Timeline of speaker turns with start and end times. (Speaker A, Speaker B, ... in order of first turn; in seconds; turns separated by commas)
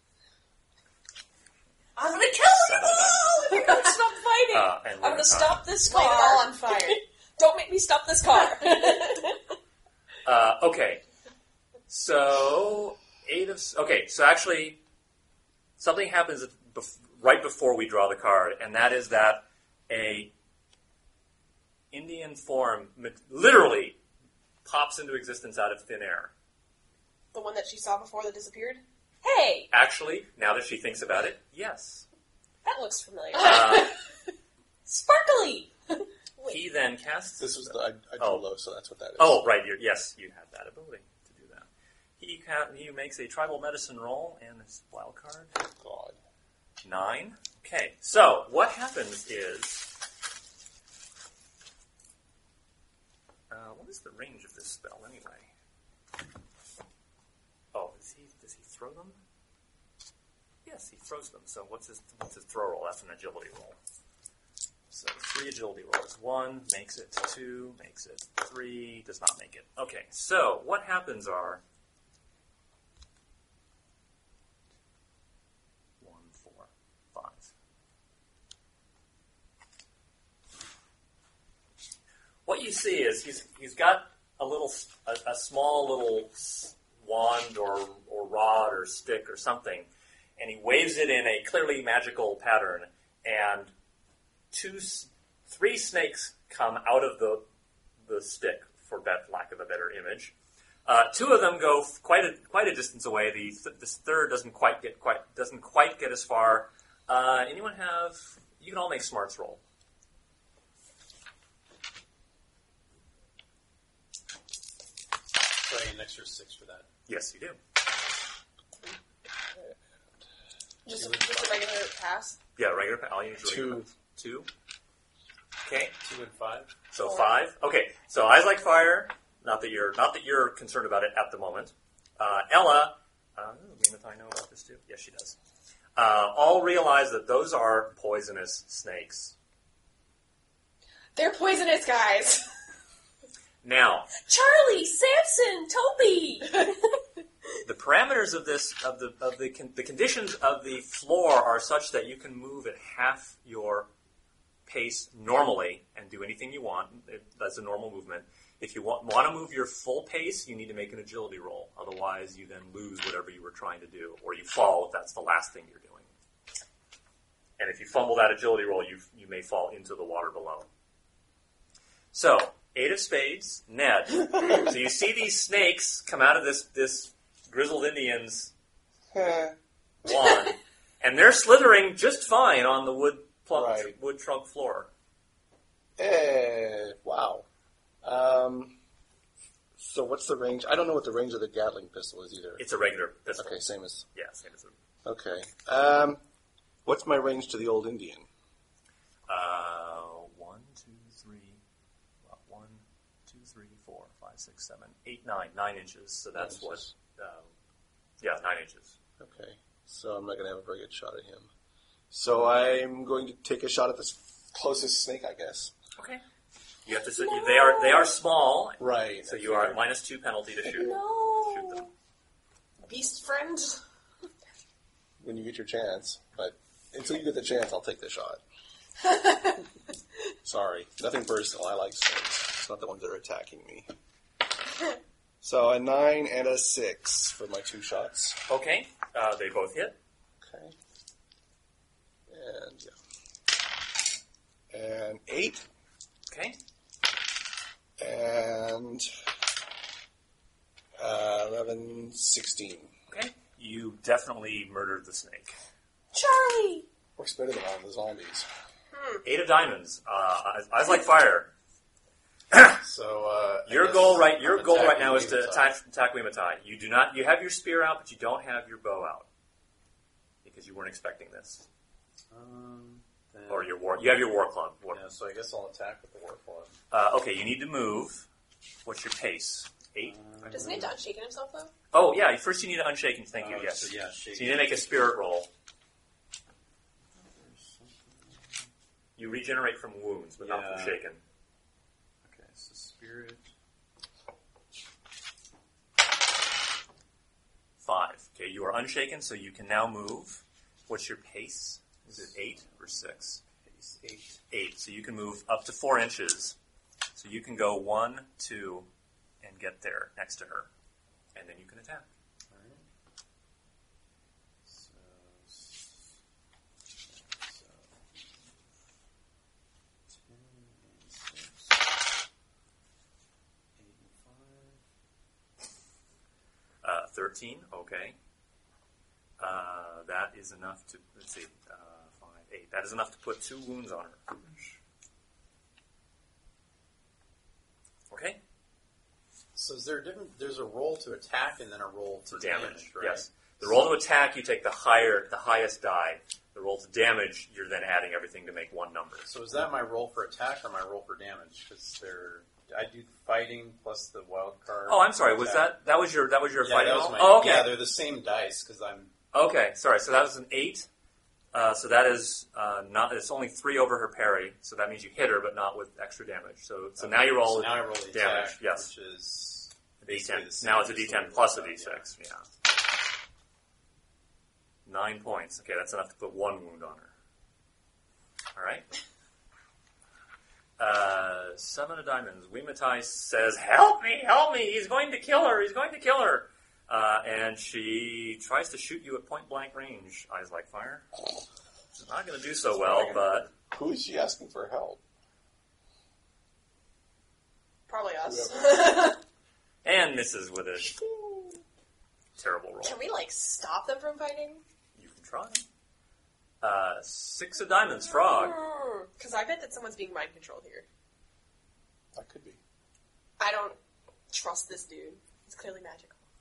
Speaker A: 1.9-9.4, Speaker B: 2.5-3.6, Speaker C: 2.9-4.2, Speaker B: 4.5-5.7, Speaker C: 5.8-7.0, Speaker C: 8.3-9.0, Speaker B: 10.2-11.0, Speaker B: 11.9-14.8, Speaker B: 15.8-20.3, Speaker B: 21.9-24.0, Speaker B: 24.6-26.3, Speaker C: 27.3-28.8, Speaker A: 29.2-29.7, Speaker B: 29.7-32.0, Speaker A: 32.6-33.9, Speaker B: 33.4-34.0, Speaker C: 33.5-33.8, Speaker A: 34.9-35.7, Speaker B: 36.5-38.4, Speaker D: 37.4-39.4, Speaker B: 39.2-45.5, Speaker D: 45.6-46.2, Speaker B: 46.8-49.9, Speaker B: 53.5-55.5, Speaker B: 57.7-59.2, Speaker B: 60.6-63.8, Speaker B: 64.9-71.6, Speaker B: 76.0-77.5, Speaker B: 82.5-93.7, Speaker B: 94.5-97.4, Speaker B: 98.0-100.3, Speaker B: 100.8-109.6, Speaker E: 115.6-116.9, Speaker B: 117.1-117.6, Speaker C: 120.8-122.4, Speaker B: 122.6-124.5, Speaker D: 123.4-123.8, Speaker B: 125.6-126.0, Speaker E: 126.0-126.7, Speaker B: 126.9-135.3, Speaker B: 135.9-139.3, Speaker C: 141.2-142.4, Speaker B: 143.6-144.1, Speaker A: 144.2-146.7, Speaker B: 147.6-153.9, Speaker B: 154.7-166.1, Speaker B: 167.6-170.7, Speaker B: 172.1-178.5, Speaker D: 179.1-179.5, Speaker B: 180.0-184.9, Speaker D: 183.5-183.9, Speaker D: 186.0-187.4, Speaker D: 188.0-188.7, Speaker D: 189.8-192.6, Speaker B: 192.6-194.7, Speaker D: 193.4-194.0, Speaker D: 195.0-196.2, Speaker D: 196.8-198.3, Speaker B: 199.3-201.6, Speaker B: 202.2-207.5, Speaker D: 206.4-206.8, Speaker B: 208.2-208.9, Speaker D: 209.2-211.5, Speaker D: 212.1-215.7, Speaker B: 216.0-216.2, Speaker B: 216.8-221.9, Speaker A: 217.1-218.2, Speaker D: 218.8-219.8, Speaker A: 220.7-221.9, Speaker C: 222.9-223.8, Speaker D: 225.2-228.4, Speaker C: 229.0-229.6, Speaker D: 230.4-233.9, Speaker D: 235.4-238.4, Speaker B: 238.5-240.0, Speaker D: 240.4-240.7, Speaker D: 242.3-242.9, Speaker D: 244.7-245.6, Speaker B: 246.3-246.6, Speaker D: 248.0-249.1, Speaker D: 251.0-252.9, Speaker B: 253.1-255.5, Speaker A: 256.1-256.9, Speaker D: 257.2-258.4, Speaker B: 259.2-261.5, Speaker B: 262.5-262.8, Speaker E: 262.8-265.7, Speaker B: 263.7-269.3, Speaker B: 270.4-271.6, Speaker E: 272.3-273.8, Speaker B: 273.5-275.0, Speaker E: 274.9-276.8, Speaker B: 276.9-278.3, Speaker B: 278.8-280.8, Speaker E: 280.0-281.0, Speaker C: 280.5-281.7, Speaker B: 281.9-285.5, Speaker E: 283.4-284.7, Speaker E: 287.1-288.7, Speaker B: 289.1-291.2, Speaker E: 290.4-291.0, Speaker E: 292.2-293.5, Speaker B: 297.8-303.4, Speaker E: 302.1-302.6, Speaker E: 303.6-304.4, Speaker B: 304.5-306.6, Speaker B: 307.1-308.9, Speaker B: 309.4-310.7, Speaker B: 311.3-312.1, Speaker E: 312.5-312.8, Speaker E: 314.6-316.1, Speaker E: 317.0-318.2, Speaker E: 320.1-321.9, Speaker E: 323.8-324.8, Speaker B: 326.8-328.1, Speaker B: 329.4-334.6, Speaker B: 338.1-338.4, Speaker E: 339.5-343.9, Speaker B: 342.3-349.3, Speaker E: 349.2-355.7, Speaker B: 354.9-357.8, Speaker E: 356.6-359.1, Speaker B: 359.3-360.9, Speaker B: 361.5-368.9, Speaker E: 367.0-372.1, Speaker B: 370.0-372.4, Speaker B: 374.9-377.1, Speaker B: 378.5-378.9, Speaker B: 380.8-391.1, Speaker B: 391.9-393.5, Speaker D: 392.8-395.0, Speaker C: 397.9-399.2, Speaker D: 398.2-398.8, Speaker B: 399.8-400.9, Speaker D: 400.8-401.6, Speaker B: 402.4-403.0, Speaker C: 402.8-404.6, Speaker B: 405.0-405.6, Speaker B: 406.6-408.6, Speaker A: 408.1-409.1, Speaker C: 409.2-410.9, Speaker D: 412.1-412.6, Speaker C: 413.4-413.8, Speaker C: 414.3-416.2